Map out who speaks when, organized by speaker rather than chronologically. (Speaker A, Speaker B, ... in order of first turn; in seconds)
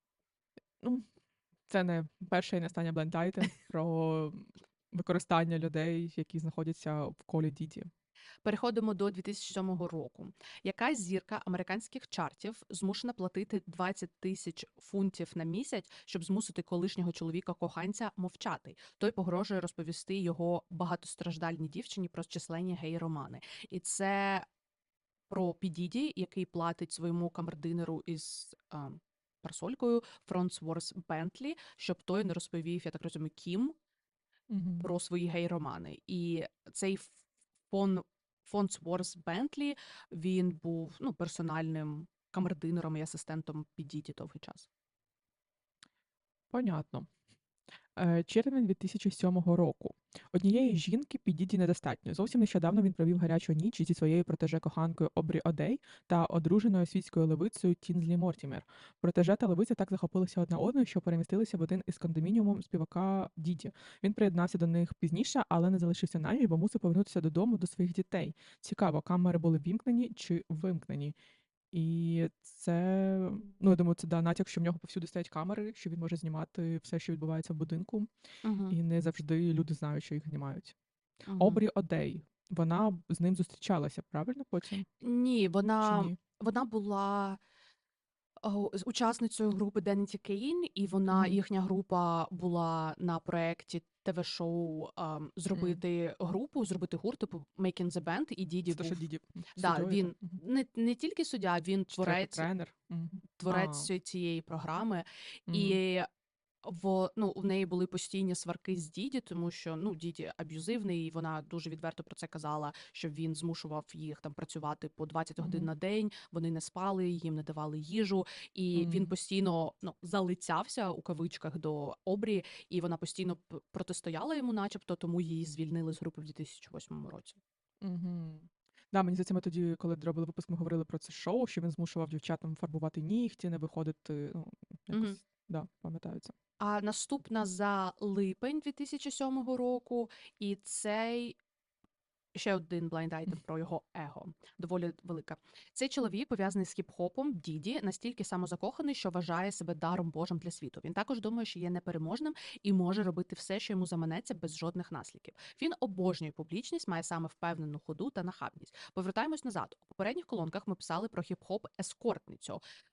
Speaker A: 0.8-1.1, 1.7-7.9, 34.5-34.9, 46.5-47.1, 48.0-71.1, 71.7-78.1, 78.7-80.8, 81.4-84.9, 85.8-86.2, 91.1-91.4, 95.5-95.8, 98.7-100.4, 101.9-103.9, 105.5-105.8, 115.4-115.7, 118.7-119.1, 127.8-136.3
Speaker B: 8.4-24.4, 25.3-33.8, 34.8-44.7, 78.4-78.8, 81.3-81.6, 85.0-87.4, 88.4-99.0, 99.6-102.5, 103.4-106.1, 106.6-127.4, 134.9-135.2, 136.6-141.4, 142.3-162.6